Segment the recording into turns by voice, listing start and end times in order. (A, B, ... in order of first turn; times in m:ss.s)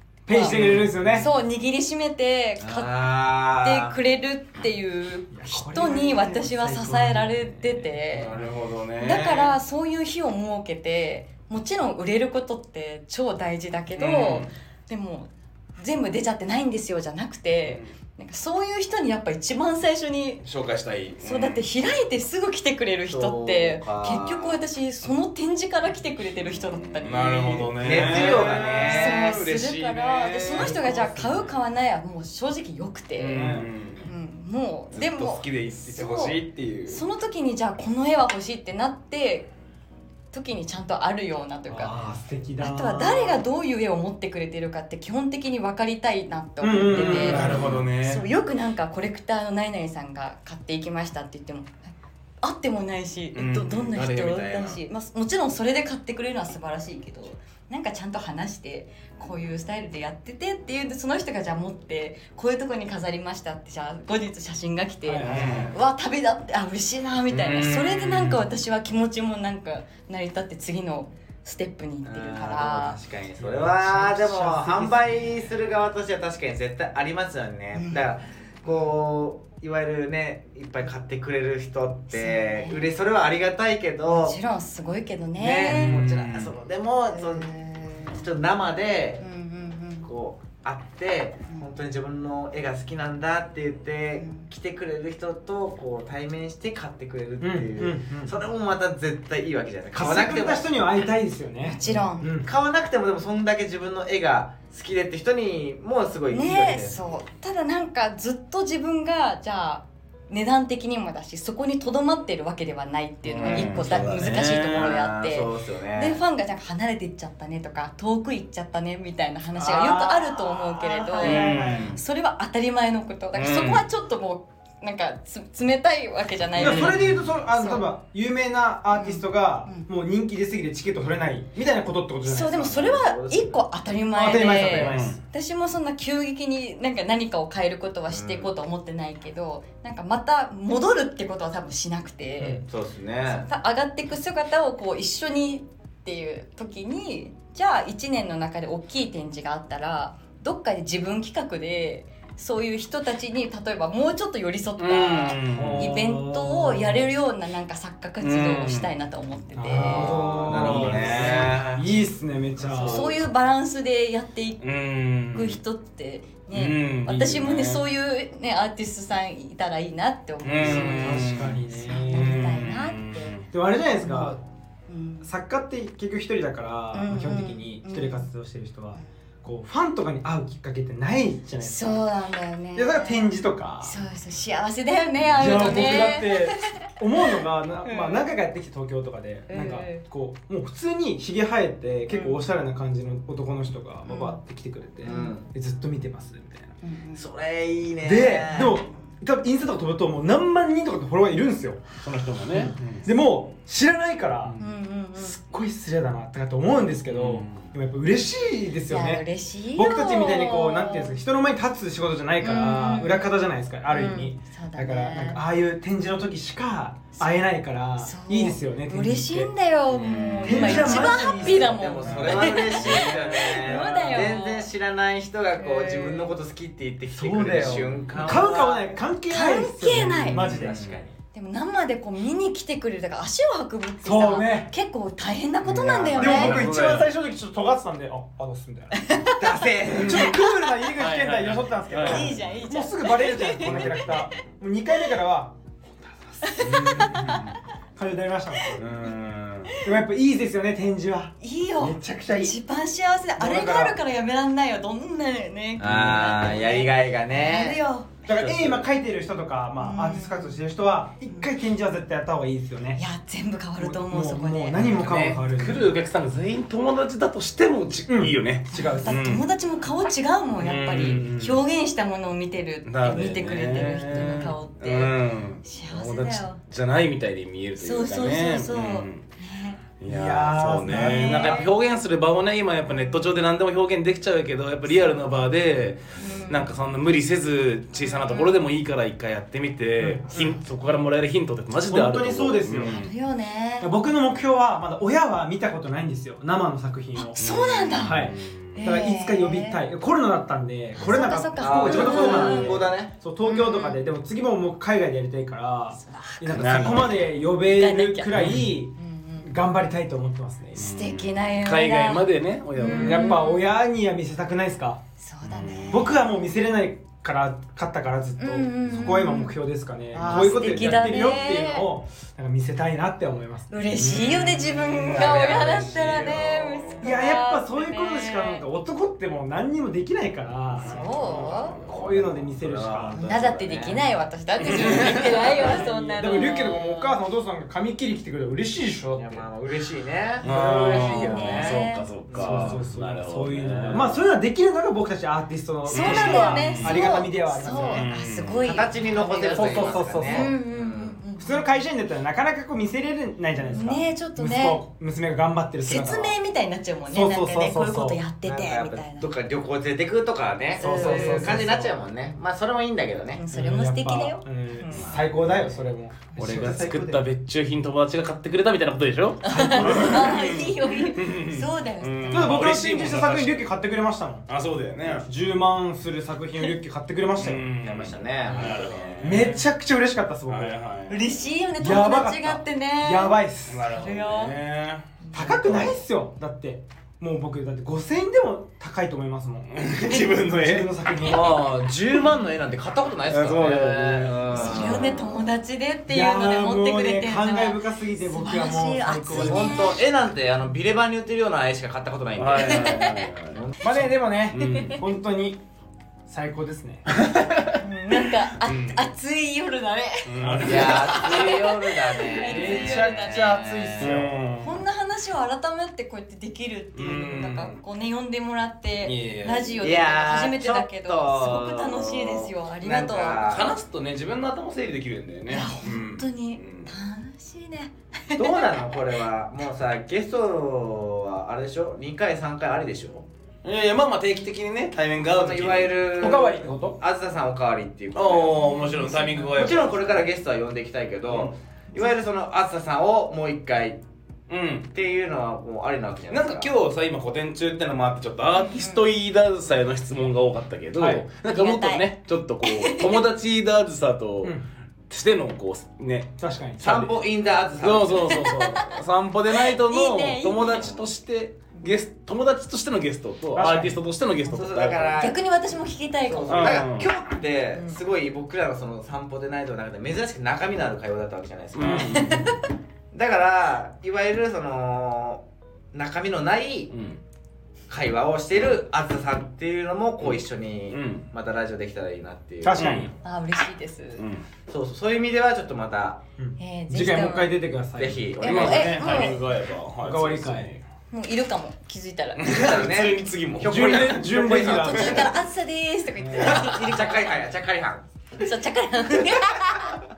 0:00.3-0:01.3 A
0:00.3-0:00.6 B
0:00.4-0:01.3 C
0:01.1-0:08.4 B
0:02.6-0:04.0 D
0:05.3-0:08.4 A
0:08.1-0:09.6 C
0:09.0-0:20.4 B
0:14.0-0:14.5 C
0:20.4-0:21.7 C
0:21.2-0:39.5 B
0:23.1-0:24.6 D
0:26.4-0:31.5 C
0:27.8-0:29.4 D
0:27.9-0:28.5 A
0:30.6-0:31.4 A
0:33.2-0:34.1 C
0:33.4-0:33.7 A
0:34.9-0:37.0 C
0:40.3-0:41.9 B
0:41.7-0:43.4 A
0:42.6-0:47.5 B
0:46.6-0:47.8 A
0:46.9-0:48.3 C
0:48.0-0:51.8 B
0:52.4-1:13.0 B
0:53.3-0:53.8 C
0:53.7-0:54.8 D
1:05.1-1:05.7 A
1:05.2-1:05.7 C
1:07.3-1:08.4 C
1:12.0-1:24.4 D
1:13.4-1:15.4 A
1:17.7-1:18.0 B
1:18.6-1:18.9 B
1:22.1-1:22.9 B
1:24.0-1:26.0 B
1:25.4-1:29.3 D
1:25.7-1:26.6 C
1:27.1-1:28.2 B
1:29.2-1:30.1 B
1:30.0-1:40.8 D
1:34.2-1:34.5 B
1:37.4-1:38.3 A
1:39.9-1:42.5 A
1:41.6-1:42.3 B
1:42.4-1:47.0 D
1:46.3-2:07.9 B
1:53.2-1:55.0 C
1:53.4-1:56.2 D
1:59.6-2:01.9 A
2:01.2-2:01.9 C
2:01.3-2:02.0 D
2:03.3-2:03.8 C
2:06.6-2:07.2 C
2:06.6-2:12.9 A
2:08.9-2:09.9 B
2:12.2-2:22.6 B
2:12.5-2:13.6 D
2:14.1-2:15.2 A
2:14.7-2:15.2 C
2:18.1-2:18.5 D
2:22.6-2:23.5 D
2:23.3-2:40.3 B
2:34.8-2:36.0 C
2:35.5-2:37.0 A
2:38.2-2:38.9 C
2:39.6-2:43.1 A
2:39.7-2:42.0 D
2:40.2-2:41.6 C
2:42.8-2:44.7 B
2:44.6-2:45.6 C
2:45.3-2:53.4 B
2:46.5-2:47.8 C
2:50.4-2:53.5 C
2:50.6-2:52.6 A
2:53.5-2:54.4 A
2:54.0-2:55.3 B
2:55.2-3:02.0 A
2:56.9-2:58.3 B
3:01.6-3:06.8 B
3:02.8-3:04.0 A
3:05.4-3:16.7 A
3:07.3-3:08.3 B
3:09.5-3:10.0 B
3:12.1-3:12.4 B
3:14.0-3:14.4 B
3:15.0-3:15.4 D
3:15.0-3:15.4 B
3:16.8-3:17.2 B
3:17.1-3:18.8 D
3:18.0-3:21.8 A
3:22.0-3:23.1 C
3:22.5-3:24.6 A
3:24.4-3:24.7 C
3:24.6-3:25.4 B
3:25.2-3:39.5 A
3:27.1-3:27.7 C
3:28.9-3:31.1 B
3:32.4-3:33.4 B
3:33.9-3:35.4 B
3:37.2-3:37.4 B
3:38.0-3:44.7 B
3:39.9-3:48.9 D
3:40.0-3:41.1 C
3:40.4-3:42.2 A
3:42.0-3:44.1 C
3:43.7-3:44.3 A
3:45.6-3:46.3 B
3:47.1-3:50.8 A
3:47.6-3:48.4 C
3:49.3-3:50.4 B
3:50.2-3:51.0 C
3:50.4-3:51.2 D
3:51.3-3:56.6 B
3:54.0-3:54.7 A
3:55.6-3:57.1 C
3:56.1-3:59.0 A
3:56.2-3:57.1 D
3:59.0-3:59.7 B
3:59.4-4:00.3 D
3:59.9-4:02.4 C
3:59.9-4:07.4 A
4:02.0-4:04.2 B
4:03.6-4:04.2 C
4:06.4-4:07.5 B
4:06.6-4:07.6 C
4:08.0-4:08.8 A
4:08.8-4:09.8 C
4:09.8-4:12.6 A
4:11.4-4:18.1 B
4:13.4-4:14.0 A
4:15.8-4:17.8 D
4:18.3-4:23.0 A
4:18.3-4:18.8 C
4:19.8-4:20.6 B
4:23.0-4:25.0 B
4:23.8-4:26.0 A
4:24.8-4:29.4 C
4:28.1-4:29.2 A
4:28.8-4:36.6 B
4:30.6-4:31.6 C
4:32.8-4:39.2 C
4:37.8-4:39.8 B
4:40.0-4:53.1 C
4:40.1-4:41.6 A
4:40.9-4:41.7 B
4:42.9-4:43.4 B
4:44.9-4:45.4 B
4:46.1-4:46.7 B
4:48.0-4:48.6 B
4:50.0-4:50.6 A
4:51.8-4:53.0 A
4:52.8-4:53.9 B
4:53.8-4:57.4 A
4:57.1-4:59.8 B
4:57.4-4:58.8 C
4:58.0-5:10.9 A
5:01.0-5:02.8 B
5:01.6-5:03.1 D
5:03.4-5:04.0 B
5:06.0-5:06.9 B
5:06.4-5:07.3 C
5:07.5-5:08.3 B
5:08.3-5:08.7 C
5:09.0-5:09.5 B
5:10.7-5:13.4 C
5:10.7-5:13.7 B
5:12.8-5:15.0 A
5:15.2-5:16.2 B
5:15.4-5:16.1 C
5:15.9-5:23.7 A
5:18.4-5:19.6 B
5:20.1-5:21.9 B
5:20.2-5:20.7 D
5:23.7-5:28.6 B
5:23.9-5:27.0 C
5:25.1-5:26.5 D
5:27.0-5:33.2 A
5:30.7-5:32.4 C
5:30.8-5:31.8 B
5:31.9-5:34.0 D
5:33.1-5:37.2 B
5:34.6-5:35.9 C
5:35.1-5:39.4 A
5:35.6-5:35.8 D
5:39.1-5:42.8 D
5:40.4-5:44.1 C
5:40.8-5:42.1 B
5:42.4-5:48.1 A
5:45.9-5:48.9 C
5:45.9-5:51.7 B
5:48.6-5:51.2 D
5:49.5-5:50.6 A
5:51.4-5:56.4 A
5:53.6-5:54.8 B
5:55.8-5:59.3 B
5:57.1-5:58.2 A
5:58.4-6:03.4 D
6:00.8-6:01.6 B
6:00.8-6:02.0 A
6:03.3-6:05.1 B
6:03.5-6:07.2 A
6:04.9-6:05.4 C
6:06.4-6:13.7 C
6:09.4-6:12.7 B
6:09.5-6:10.4 A
6:12.3-6:14.5 A
6:14.5-6:15.3 C
6:15.0-6:17.6 A
6:17.4-6:19.6 C
6:17.8-6:19.4 D
6:18.5-6:20.8 A
6:20.5-6:21.4 C
6:21.1-6:24.6 B
6:21.8-6:23.9 A
6:23.7-6:26.0 C
6:25.2-6:25.5 B
6:25.3-6:29.9 A
6:29.7-6:30.9 C
6:30.1-6:30.4 B
6:30.4-6:31.7 A
6:31.2-6:35.2 D
6:33.3-6:35.2 C
6:34.5-6:40.0 B
6:36.1-6:39.9 A
6:39.3-6:44.1 D
6:42.4-6:43.6 C
6:42.6-6:43.2 B
6:43.8-6:45.6 A
6:44.5-6:45.0 C
6:44.6-6:45.0 B
6:46.3-6:47.1 A
6:47.1-6:47.8 C
6:47.8-6:53.6 B
6:48.4-6:49.0 C
6:50.3-6:51.6 C
6:50.4-6:51.0 A
6:50.6-6:54.2 D
6:52.4-6:54.3 A
6:54.0-6:54.8 C
6:54.6-7:03.6 B
6:57.0-6:57.8 C
6:59.0-6:59.8 C
6:59.8-7:03.8 D
7:03.3-7:06.9 C
7:05.5-7:09.0 B
7:08.4-7:13.3 D
7:13.6-7:16.4 C
7:15.3-7:18.6 D
7:16.2-7:17.0 A
7:18.1-7:20.3 C
7:18.6-7:19.9 B
7:19.5-7:24.0 D
7:24.5-7:24.9 C
7:24.9-7:26.7 D
7:26.3-7:34.6 C
7:28.5-7:29.1 B
7:31.0-7:31.3 A
7:31.4-7:32.1 B
7:32.6-7:33.3 B
7:35.1-7:36.3 C
7:36.4-7:37.1 A
7:36.8-7:38.5 D
7:37.8-7:45.3 C
7:38.2-7:39.0 B
7:39.5-7:40.9 B
7:40.7-7:41.1 D
7:43.5-7:44.0 A
7:44.4-7:45.4 D
7:45.2-7:46.9 B
7:46.3-7:52.3 D
7:46.5-7:47.1 C
7:47.7-7:48.0 B
7:51.7-7:52.5 C
7:51.9-7:52.6 B
7:53.1-7:56.9 D
7:56.9-7:57.2 C
7:57.9-8:02.9 D
8:00.2-8:01.3 C
8:02.6-8:03.1 A
8:02.7-8:03.1 C
8:03.2-8:04.2 B
8:04.2-8:04.4 C
8:04.7-8:06.2 D
8:06.4-8:09.2 A
8:06.6-8:07.6 B
8:08.0-8:09.1 D
8:08.4-8:09.4 B
8:08.4-8:10.8 C
8:10.0-8:10.7 A
8:11.1-8:12.6 B
8:12.4-8:14.7 C
8:12.4-8:15.4 D
8:13.6-8:15.3 A
8:14.7-8:17.4 B
8:16.2-8:16.7 C
8:16.3-8:18.0 D
8:18.4-8:20.0 B